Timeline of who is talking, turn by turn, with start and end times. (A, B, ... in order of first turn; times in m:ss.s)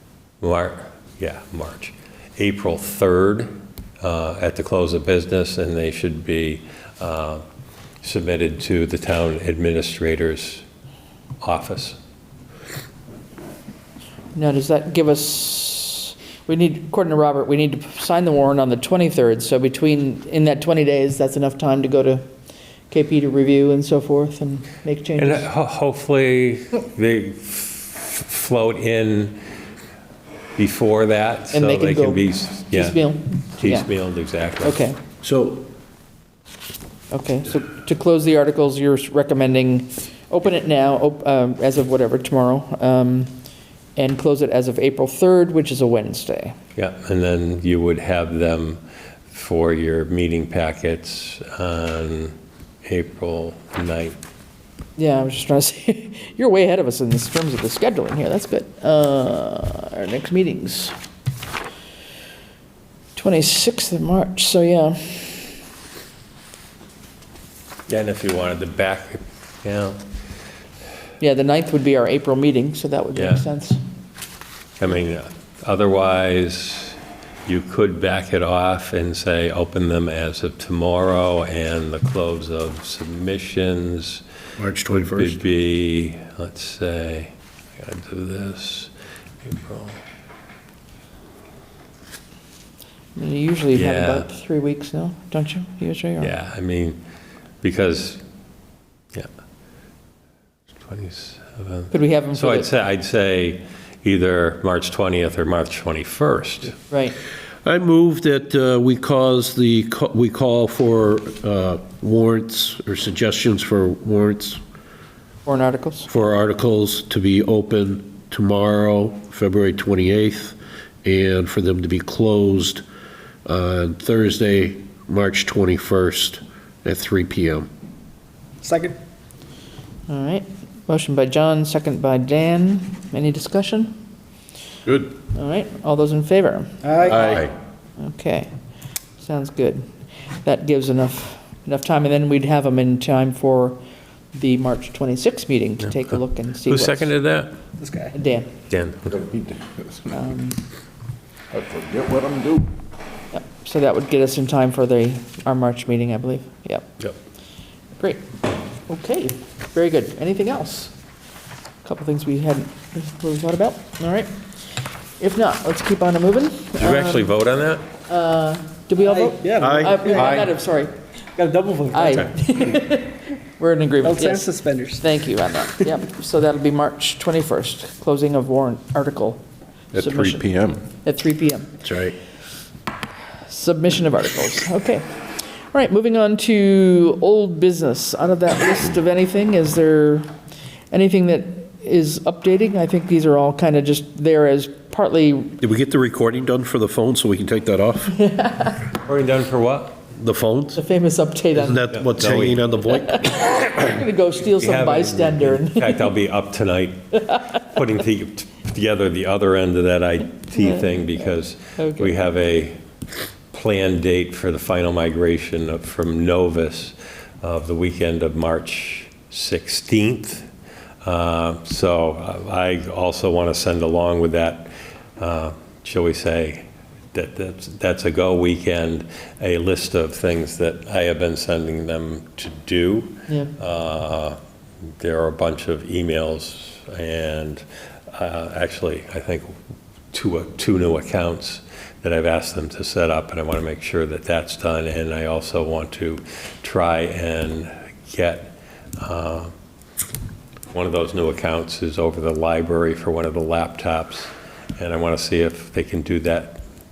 0:00.4-0:03.5 A
0:04.0-0:07.4 A
0:08.0-0:10.6 A
0:11.4-0:12.0 A
0:14.4-0:22.2 B
0:22.9-0:25.5 B
0:25.2-0:29.4 A
0:30.6-0:34.8 A
0:31.5-0:33.9 B
0:34.6-0:35.0 B
0:35.2-0:35.7 C
0:37.1-0:43.3 B
0:44.0-0:46.6 B
0:46.8-0:54.2 A
0:55.0-1:01.0 B
1:03.2-1:05.5 B
1:07.9-1:10.0 A
1:11.2-1:13.8 B
1:13.2-1:13.4 A
1:14.8-1:24.2 A
1:24.6-1:25.4 C
1:25.1-1:28.9 A
1:29.4-1:30.0 A
1:33.2-1:36.3 B
1:33.7-1:34.3 A
1:36.2-1:37.0 A
1:37.6-1:38.2 A
1:40.8-1:46.8 A
1:41.9-1:42.7 B
1:46.9-1:47.2 B
1:47.6-1:54.6 C
1:55.5-1:56.1 B
1:56.1-2:02.8 C
2:03.5-2:07.7 C
2:08.6-2:09.0 D
2:10.1-2:13.9 B
2:14.9-2:15.1 C
2:15.3-2:16.8 B
2:16.8-2:17.5 D
2:17.1-2:17.5 C
2:18.0-2:18.5 B
2:19.2-2:19.8 B
2:20.4-2:23.8 B
2:24.3-2:27.1 B
2:26.6-2:27.6 A
2:27.8-2:28.2 D
2:28.1-2:28.5 B
2:28.7-2:29.1 A
2:29.1-2:30.1 E
2:30.1-2:30.6 B
2:31.5-2:32.7 E
2:33.3-2:36.9 B
2:38.0-2:38.2 B
2:38.9-2:40.9 B
2:41.8-2:44.3 B
2:45.2-2:47.2 B
2:46.8-2:47.8 A
2:48.1-2:50.9 B
2:49.1-2:50.3 D
2:49.6-2:50.5 C
2:51.4-2:52.2 D
2:51.9-2:54.5 B
2:54.0-2:55.0 D
2:55.0-2:59.4 B
2:59.9-3:00.4 B
2:59.9-3:00.8 E
3:01.0-3:01.7 B
3:01.8-3:02.2 C
3:03.5-3:10.3 B
3:10.9-3:15.6 B
3:15.6-3:18.2 C
3:18.2-3:18.9 B
3:18.9-3:20.0 A
3:20.2-3:20.8 C
3:20.8-3:21.9 B
3:21.5-3:23.3 C
3:21.9-3:22.7 A
3:23.0-3:26.1 B
3:24.5-3:32.8 A
3:31.8-3:32.1 B
3:33.5-3:40.5 A
3:41.0-3:54.4 A
3:55.0-3:59.5 A
4:00.1-4:09.5 A
4:10.7-4:16.6 A